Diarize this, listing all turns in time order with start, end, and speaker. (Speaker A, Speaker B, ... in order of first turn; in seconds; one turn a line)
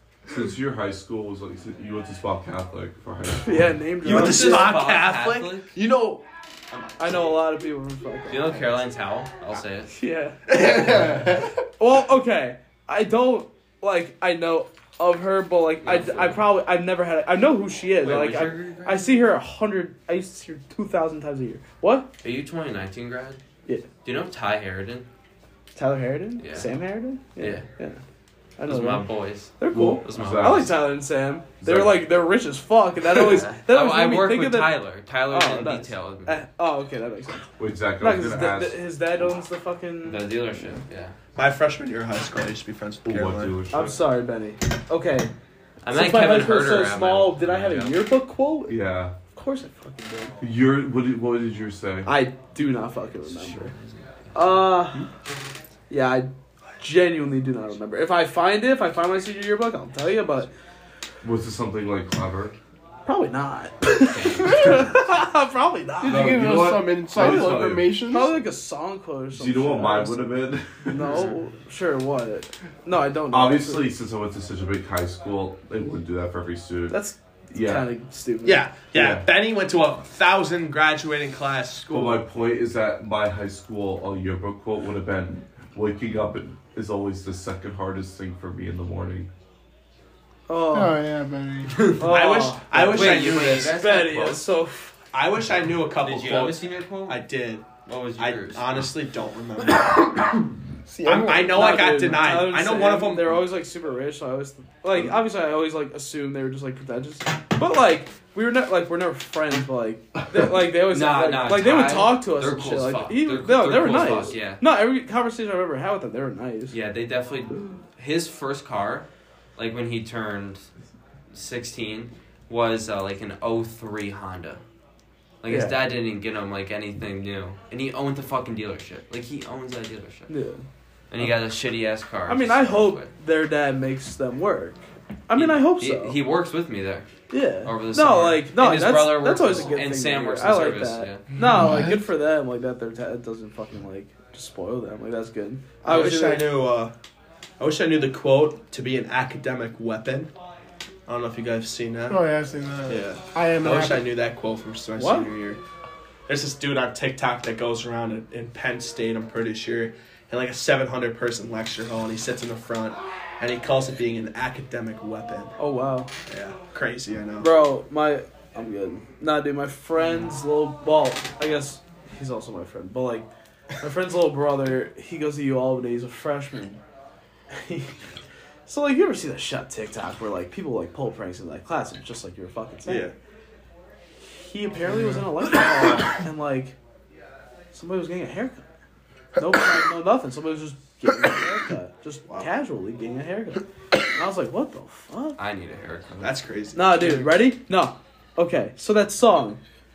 Speaker A: 0.3-3.8
Speaker B: 3.4-4.8
Speaker C: 4.0-5.7
Speaker D: 4.0-7.3
Speaker B: 7.0-8.7
Speaker C: 8.3-9.9
Speaker B: 9.9-11.0
Speaker D: 10.5-11.2
Speaker B: 11.8-22.1
Speaker C: 15.8-16.5
Speaker C: 18.0-19.2
Speaker C: 22.2-23.4
Speaker C: 24.0-25.1
Speaker B: 25.7-28.0
Speaker C: 26.4-26.8
Speaker C: 27.4-27.7
Speaker B: 28.6-40.3
Speaker C: 28.6-30.7
Speaker A: 29.7-30.7
Speaker A: 31.6-32.1
Speaker C: 33.1-36.4
Speaker A: 37.6-38.9
Speaker C: 40.0-41.1
Speaker D: 41.4-43.5
Speaker A: 43.0-44.0
Speaker B: 43.7-45.3
Speaker C: 45.8-48.0
Speaker B: 45.9-50.4
Speaker A: 48.7-49.1
Speaker A: 50.4-52.1
Speaker B: 52.0-53.7
Speaker C: 53.2-54.7
Speaker B: 54.3-55.1
Speaker B: 55.9-60.5
Speaker A: 61.2-62.5
Speaker B: 63.0-70.3
Speaker C: 64.0-65.0
Speaker A: 66.0-67.9
Speaker E: 66.0-68.4
Speaker A: 69.3-71.2
Speaker B: 70.8-73.9
Speaker C: 71.1-71.4
Speaker A: 73.3-77.9
Speaker B: 76.9-78.7
Speaker D: 78.4-82.3
Speaker A: 78.9-79.2
Speaker A: 81.9-89.3
Speaker B: 90.5-91.0
Speaker E: 90.7-91.8
Speaker B: 92.0-94.9
Speaker D: 92.0-93.7
Speaker C: 92.7-94.5
Speaker D: 95.1-97.7
Speaker C: 96.0-97.2
Speaker C: 97.8-98.9
Speaker D: 98.2-100.1
Speaker E: 100.8-101.7
Speaker D: 101.0-103.4
Speaker B: 101.4-116.8
Speaker C: 110.7-114.6
Speaker C: 116.7-120.7
Speaker C: 121.3-124.6
Speaker C: 125.4-130.3
Speaker B: 125.5-125.8
Speaker B: 130.3-130.6
Speaker C: 131.1-133.1
Speaker B: 132.3-136.2
Speaker C: 135.3-137.1
Speaker B: 137.3-146.5
Speaker C: 137.6-141.3
Speaker D: 145.8-146.9
Speaker D: 147.6-150.3
Speaker D: 151.1-152.2
Speaker E: 152.1-154.1
Speaker D: 152.9-155.6
Speaker B: 154.9-155.3
Speaker D: 156.3-165.5
Speaker B: 165.6-166.1
Speaker D: 166.3-167.5
Speaker B: 167.4-173.3
Speaker B: 173.8-176.8
Speaker B: 177.5-177.9
Speaker B: 178.7-183.1
Speaker D: 182.8-183.1
Speaker B: 184.2-186.8
Speaker D: 184.9-185.2
Speaker B: 187.7-188.6
Speaker B: 189.4-193.6
Speaker B: 194.1-195.4
Speaker C: 195.4-196.3
Speaker D: 196.2-197.3
Speaker B: 196.7-199.6